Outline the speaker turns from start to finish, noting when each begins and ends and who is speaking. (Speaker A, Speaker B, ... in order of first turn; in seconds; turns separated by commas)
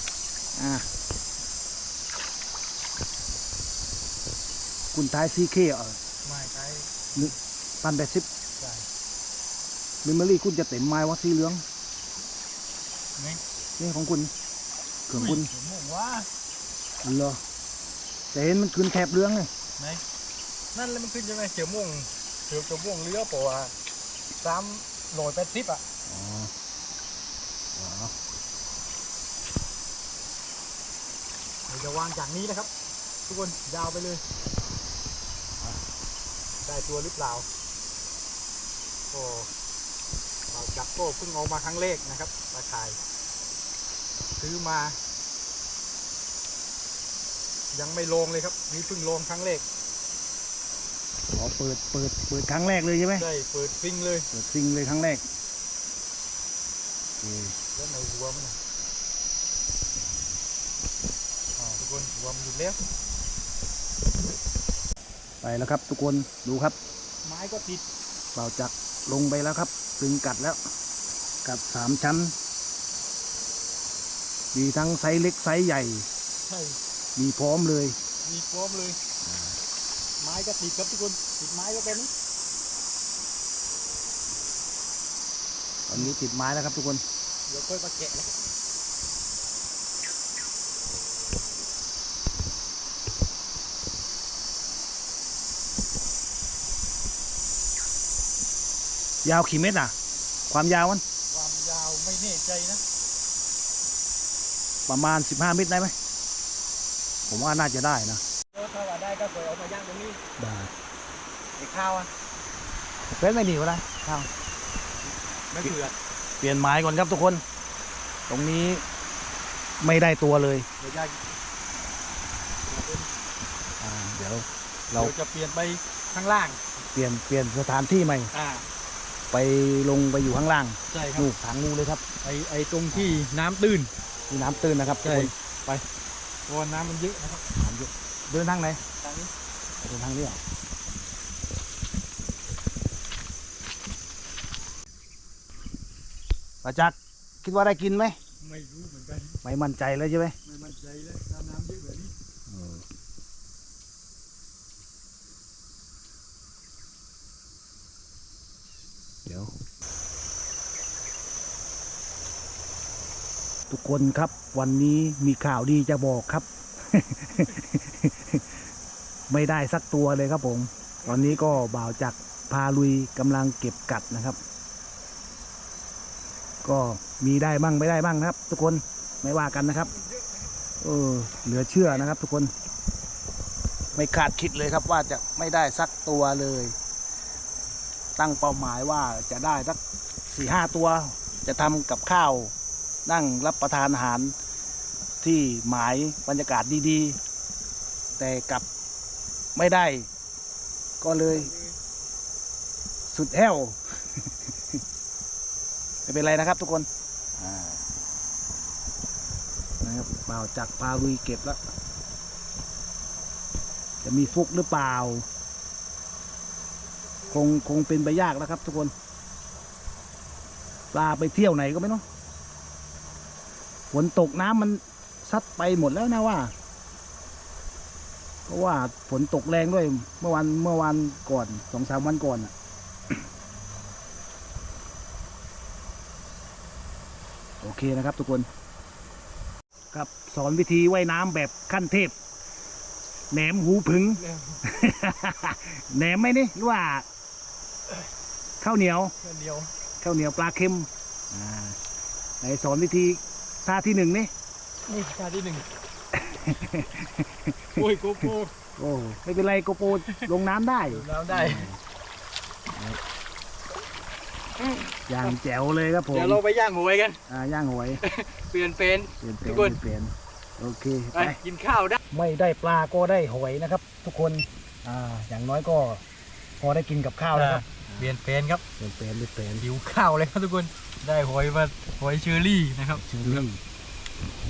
Speaker A: 0.5-0.8, Speaker A: 4.9-6.0, Speaker B: 6.2-7.1, Speaker A: 7.1-8.2, Speaker B: 8.6-8.8, Speaker A: 10.0-11.6, Speaker A: 13.8-14.3, Speaker A: 15.1-15.5, Speaker B: 15.1-16.3, Speaker A: 17.0-17.4, Speaker A: 18.3-19.5, Speaker B: 20.7-23.7, Speaker B: 24.4-25.8, Speaker A: 26.1-26.5, Speaker A: 27.7-28.1, Speaker B: 31.7-32.7, Speaker B: 33.2-34.2, Speaker B: 36.6-37.5, Speaker B: 39.1-39.5, Speaker B: 40.5-43.0, Speaker B: 44.4-45.0, Speaker B: 47.7-49.6, Speaker A: 51.3-53.3, Speaker B: 53.1-54.3, Speaker A: 54.3-55.2, Speaker A: 57.2-57.5, Speaker B: 57.7-58.6, Speaker B: 61.6-62.8, Speaker A: 65.4-66.8, Speaker B: 67.2-67.8, Speaker A: 68.3-70.6, Speaker A: 71.4-72.3, Speaker A: 74.5-76.1, Speaker B: 76.5-76.8, Speaker A: 77.2-78.0, Speaker B: 78.2-79.0, Speaker A: 79.2-79.6, Speaker B: 80.2-82.1, Speaker A: 85.9-87.0, Speaker B: 87.5-88.3, Speaker A: 99.2-99.9, Speaker A: 100.5-101.0, Speaker B: 101.3-102.8, Speaker A: 104.9-105.9, Speaker A: 107.3-108.2, Speaker B: 108.5-110.2, Speaker A: 110.4-110.7, Speaker B: 111.6-112.1, Speaker A: 113.2-114.3, Speaker B: 115.1-115.9, Speaker A: 116.4-117.4, Speaker A: 118.3-118.8, Speaker A: 119.8-120.7, Speaker B: 120.8-121.2, Speaker B: 122.7-123.1, Speaker A: 123.8-125.1, Speaker B: 125.0-126.6, Speaker A: 126.8-128.3, Speaker B: 128.3-128.6, Speaker A: 129.3-132.0, Speaker B: 130.9-131.3, Speaker B: 132.2-133.9, Speaker A: 132.9-133.2, Speaker A: 134.3-135.8, Speaker B: 135.0-135.3, Speaker B: 136.5-137.4, Speaker A: 137.6-138.8, Speaker B: 139.0-139.3, Speaker A: 139.8-140.4, Speaker A: 146.6-148.2, Speaker B: 148.4-149.4, Speaker A: 149.4-150.3, Speaker B: 150.4-152.1, Speaker A: 152.5-152.8, Speaker A: 159.2-159.5, Speaker A: 163.7-168.4, Speaker A: 169.3-174.4, Speaker B: 171.1-171.6, Speaker A: 176.6-179.9, Speaker B: 179.6-180.1, Speaker A: 180.8-182.5, Speaker A: 183.9-186.8, Speaker A: 188.2-192.5, Speaker A: 193.1-194.3, Speaker A: 195.2-197.2, Speaker A: 198.2-198.6, Speaker A: 199.5-200.1, Speaker A: 201.0-201.5, Speaker B: 201.3-201.7, Speaker A: 203.1-204.8, Speaker A: 206.1-207.8, Speaker A: 209.8-211.6, Speaker A: 214.0-215.2, Speaker A: 217.3-218.9, Speaker A: 220.9-222.0, Speaker A: 223.9-226.5, Speaker A: 228.5-232.5, Speaker A: 237.6-238.5, Speaker A: 239.9-242.1, Speaker A: 243.3-247.1, Speaker B: 244.2-244.6, Speaker A: 248.6-249.1, Speaker B: 249.2-249.7, Speaker A: 250.0-251.8, Speaker A: 252.4-254.3, Speaker B: 254.9-255.7, Speaker A: 256.1-261.8, Speaker B: 257.8-258.5, Speaker B: 260.9-261.7, Speaker A: 262.7-263.0, Speaker B: 264.6-265.3, Speaker A: 265.1-266.4, Speaker B: 266.1-267.2, Speaker A: 267.3-268.0, Speaker B: 268.0-269.8, Speaker A: 269.2-271.4, Speaker B: 271.1-272.0, Speaker A: 272.1-276.0, Speaker A: 276.6-278.1, Speaker B: 277.3-278.6, Speaker A: 278.8-279.6, Speaker B: 279.6-283.4, Speaker A: 282.9-283.6